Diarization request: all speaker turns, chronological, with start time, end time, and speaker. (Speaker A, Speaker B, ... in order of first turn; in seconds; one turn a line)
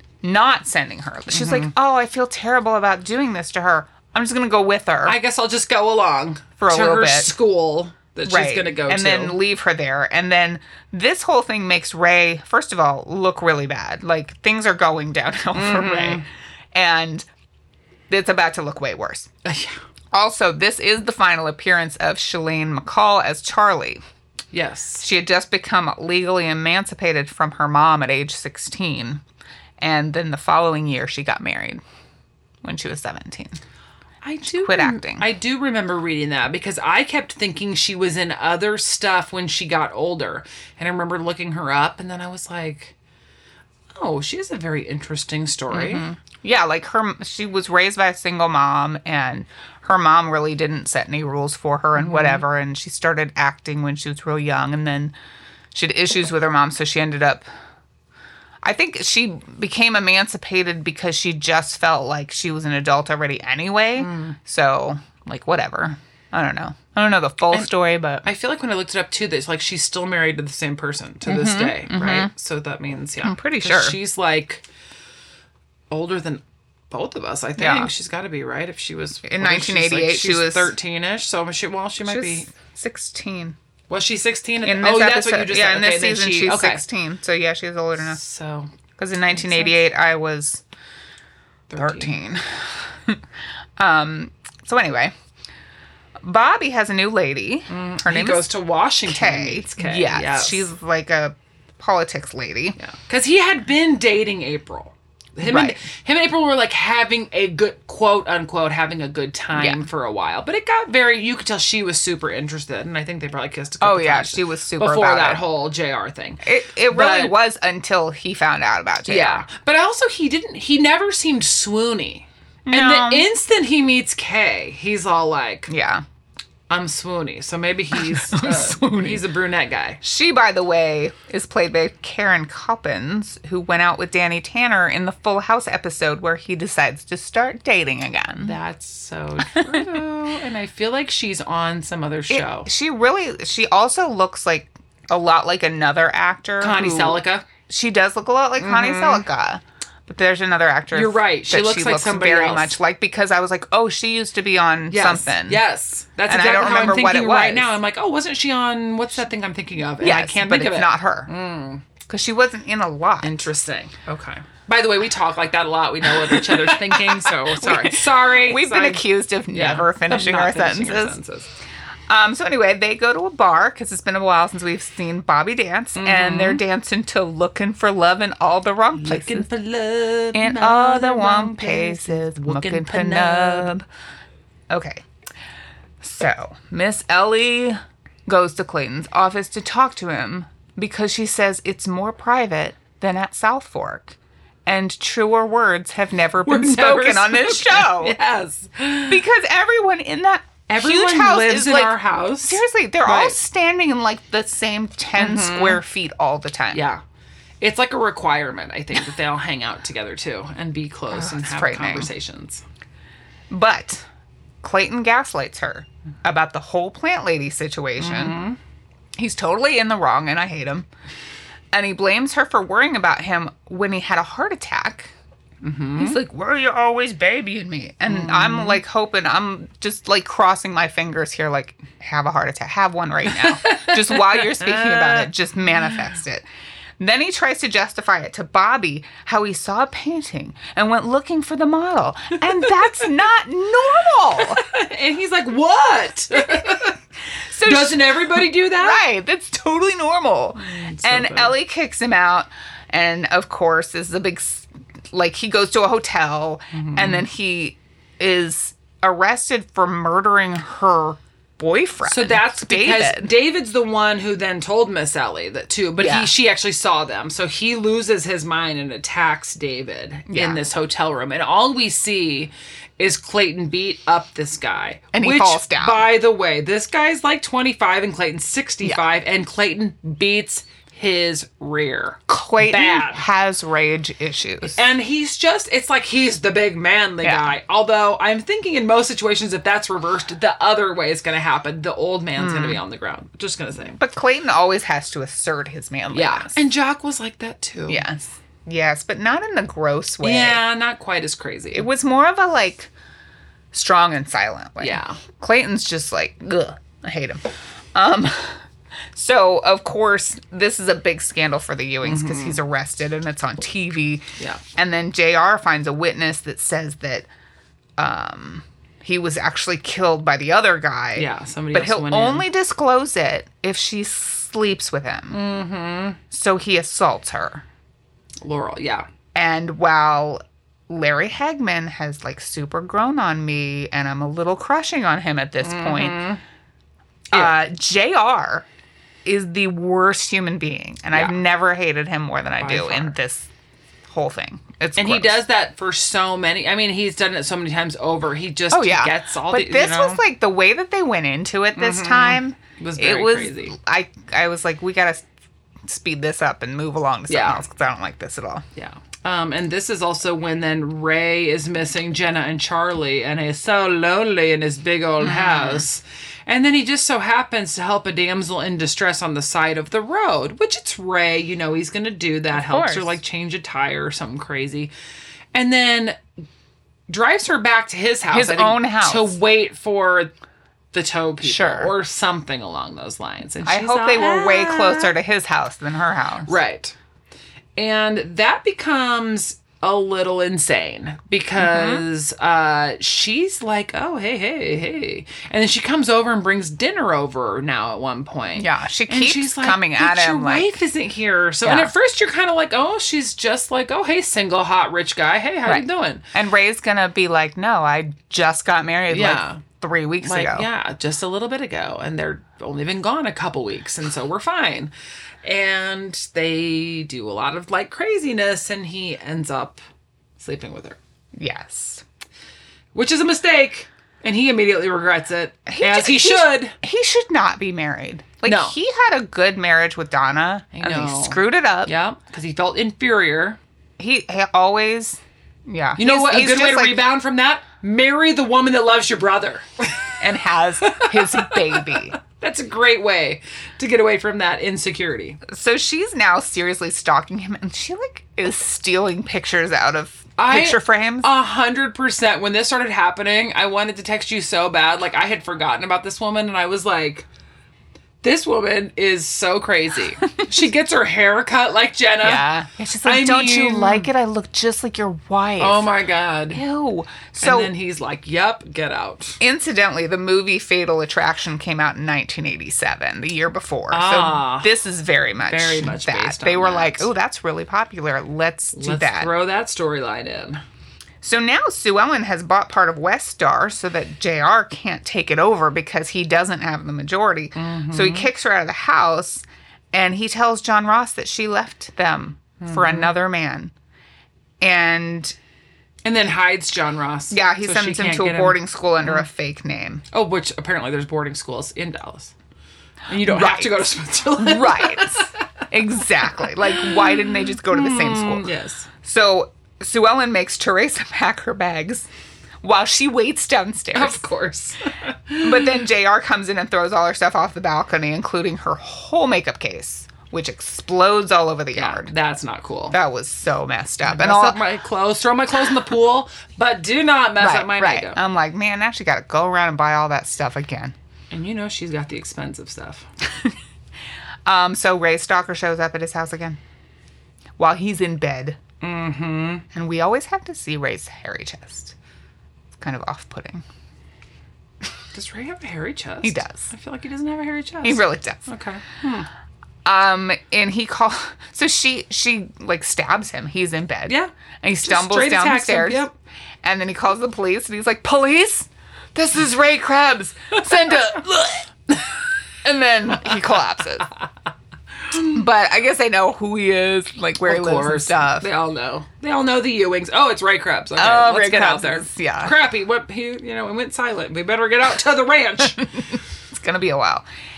Speaker A: 0.2-5.2
Speaker B: 1.3-1.7
Speaker B: 5.0-9.4
Speaker A: 6.6-7.3
Speaker A: 8.2-16.2
Speaker B: 15.5-16.2
Speaker A: 16.7-17.2
Speaker A: 18.1-19.3
Speaker B: 19.4-19.8
Speaker A: 20.1-24.0
Speaker B: 24.5-25.0
Speaker A: 25.0-29.2
Speaker A: 29.8-31.8
Speaker A: 32.6-33.6
Speaker B: 34.2-42.9
Speaker A: 34.6-35.3
Speaker B: 43.9-46.0
Speaker A: 45.7-55.1
Speaker B: 52.0-52.4
Speaker A: 55.7-57.4
Speaker A: 58.6-68.2
Speaker B: 64.0-64.4
Speaker B: 68.2-74.6
Speaker A: 71.2-72.3
Speaker A: 73.2-74.0
Speaker B: 75.9-82.5
Speaker A: 77.6-77.9
Speaker A: 79.2-80.7
Speaker A: 82.0-83.5
Speaker B: 83.9-86.8
Speaker A: 84.6-88.2
Speaker B: 88.0-88.7
Speaker A: 89.0-90.6
Speaker B: 89.3-89.8
Speaker B: 91.7-92.1
Speaker A: 91.8-93.2
Speaker A: 93.8-95.1
Speaker A: 96.2-98.5
Speaker B: 97.7-100.7
Speaker A: 99.0-102.8
Speaker B: 102.8-117.3
Speaker A: 105.4-105.8
Speaker A: 109.5-109.8
Speaker A: 113.8-115.4
Speaker A: 116.4-119.4
Speaker B: 119.1-125.7
Speaker A: 122.7-123.2
Speaker A: 125.7-126.0
Speaker B: 126.7-130.0
Speaker A: 127.9-129.2
Speaker A: 130.0-138.6
Speaker B: 138.4-142.7
Speaker A: 139.4-140.0
Speaker A: 142.3-155.6
Speaker B: 146.6-147.4
Speaker B: 148.6-149.2
Speaker B: 150.9-152.8
Speaker B: 154.9-161.8
Speaker A: 156.3-157.8
Speaker A: 160.0-161.3
Speaker A: 162.1-163.5
Speaker B: 163.2-171.5
Speaker A: 166.0-171.2
Speaker A: 172.1-179.5
Speaker B: 175.9-176.6
Speaker B: 178.9-183.7
Speaker A: 180.3-183.8
Speaker A: 184.7-185.0
Speaker A: 186.0-198.2
Speaker B: 196.4-199.2
Speaker A: 199.1-206.8
Speaker B: 200.7-203.4
Speaker B: 205.2-205.8
Speaker B: 206.7-207.0
Speaker B: 207.6-212.6
Speaker A: 211.1-212.1
Speaker A: 213.5-214.0
Speaker A: 214.6-218.4
Speaker B: 218.0-218.6
Speaker A: 219.2-220.9
Speaker A: 221.7-225.1
Speaker B: 225.6-226.2
Speaker A: 226.0-236.4
Speaker B: 228.1-228.8
Speaker B: 233.3-235.3
Speaker A: 237.0-244.6
Speaker B: 244.3-247.0
Speaker A: 246.5-246.8
Speaker A: 247.5-263.3
Speaker B: 247.6-249.0
Speaker B: 250.6-251.6
Speaker B: 256.7-257.2
Speaker B: 262.0-283.2
Speaker A: 266.0-266.3
Speaker A: 270.3-270.6
Speaker A: 275.1-276.1
Speaker A: 282.3-284.8
Speaker B: 284.7-294.0
Speaker A: 287.2-287.5
Speaker A: 292.4-292.8
Speaker A: 294.0-296.6
Speaker B: 296.1-298.1
Speaker A: 297.9-300.6
Speaker B: 300.2-301.9
Speaker A: 301.7-302.9
Speaker A: 303.7-308.6
Speaker B: 304.8-305.2
Speaker A: 309.1-317.3
Speaker B: 312.0-312.6
Speaker A: 318.0-325.4
Speaker B: 321.1-322.4
Speaker B: 325.3-326.2
Speaker A: 326.3-327.6
Speaker B: 328.4-329.1
Speaker A: 329.3-336.2
Speaker B: 335.6-336.4
Speaker A: 337.3-338.7
Speaker A: 339.2-343.5
Speaker B: 342.6-343.1
Speaker A: 344.1-345.4
Speaker B: 345.0-350.2
Speaker A: 348.7-355.2
Speaker B: 351.8-353.7
Speaker A: 355.9-358.6
Speaker B: 357.3-357.6
Speaker B: 358.8-374.9
Speaker A: 365.2-365.8
Speaker A: 372.5-373.2
Speaker B: 375.5-376.2
Speaker B: 377.1-380.3
Speaker A: 378.3-379.4
Speaker B: 380.9-385.1
Speaker A: 381.4-381.9
Speaker A: 383.6-386.5
Speaker B: 386.4-386.9
Speaker B: 387.8-406.2
Speaker A: 391.6-392.0
Speaker A: 398.6-400.8
Speaker A: 401.6-401.9
Speaker A: 405.6-410.7
Speaker B: 409.1-409.6
Speaker B: 410.2-414.9
Speaker B: 415.4-419.8
Speaker B: 420.4-421.0
Speaker A: 421.4-422.0
Speaker B: 422.9-426.8
Speaker A: 425.7-431.9
Speaker B: 428.4-428.8
Speaker B: 430.7-433.6
Speaker A: 434.0-437.0
Speaker B: 436.0-440.1
Speaker A: 440.2-442.2
Speaker B: 440.8-445.4
Speaker A: 445.4-451.3
Speaker B: 450.4-457.3
Speaker B: 458.2-462.4
Speaker A: 462.2-465.9
Speaker B: 463.0-464.1
Speaker B: 465.6-466.6
Speaker A: 466.5-467.7
Speaker B: 467.4-469.4
Speaker A: 469.4-479.3
Speaker B: 473.9-474.7
Speaker B: 475.5-477.1
Speaker B: 478.7-480.6
Speaker A: 481.2-493.7
Speaker B: 487.5-488.3
Speaker B: 492.6-493.1
Speaker A: 494.6-495.4
Speaker B: 496.0-499.2
Speaker A: 497.3-500.0
Speaker B: 500.1-502.3
Speaker B: 503.1-505.3
Speaker A: 503.2-508.5
Speaker B: 506.7-508.9
Speaker A: 509.0-512.1
Speaker A: 512.6-514.2
Speaker B: 513.9-515.8
Speaker A: 515.4-522.1
Speaker B: 521.7-523.0
Speaker A: 522.9-524.6
Speaker B: 524.0-528.2
Speaker A: 527.4-530.9
Speaker B: 531.3-533.0
Speaker A: 534.5-536.6
Speaker A: 537.6-538.6
Speaker B: 538.8-539.6
Speaker A: 539.7-541.9
Speaker A: 542.8-543.6
Speaker B: 545.1-549.3
Speaker A: 546.2-546.7
Speaker A: 547.8-548.5
Speaker A: 549.8-556.0
Speaker B: 554.8-556.1
Speaker A: 556.6-561.7
Speaker A: 562.6-564.1
Speaker A: 565.1-568.5
Speaker B: 567.4-575.9
Speaker A: 571.0-572.5
Speaker A: 575.8-577.2